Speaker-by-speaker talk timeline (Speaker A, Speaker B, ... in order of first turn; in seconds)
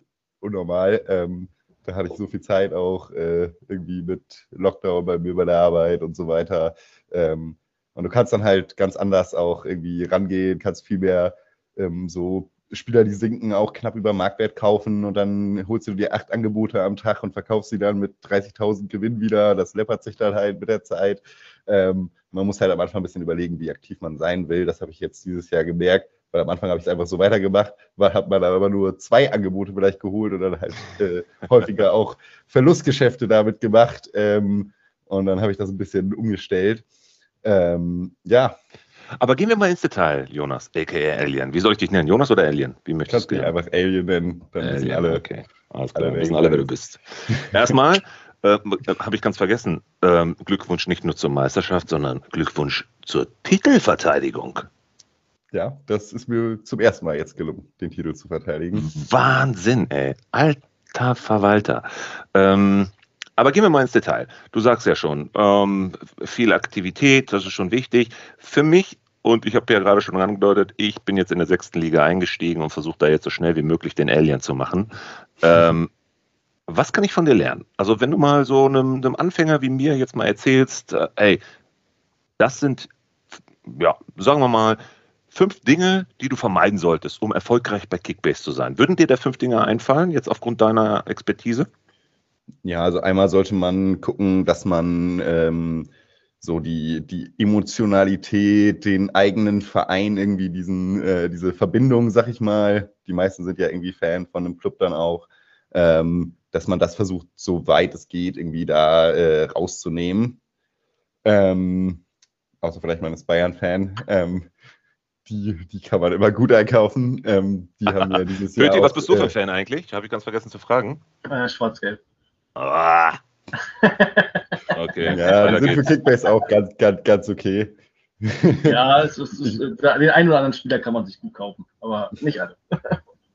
Speaker A: 0.4-36.8, 37.4-38.6, 43.1-45.2, 46.0-46.7, 55.5-58.9, 92.7-95.9, 96.4-110.4, 111.2-112.0, 112.6-114.5, 115.3-119.3, 125.1-128.8
Speaker B: 39.2-43.5, 44.6-54.7, 58.8-75.9, 76.7-81.4, 82.4-82.9, 83.6-84.8, 85.3-91.7, 117.9-121.0, 122.6-123.2, 124.7-125.9
Speaker C: 121.3-122.0, 123.6-125.4, 128.7-133.0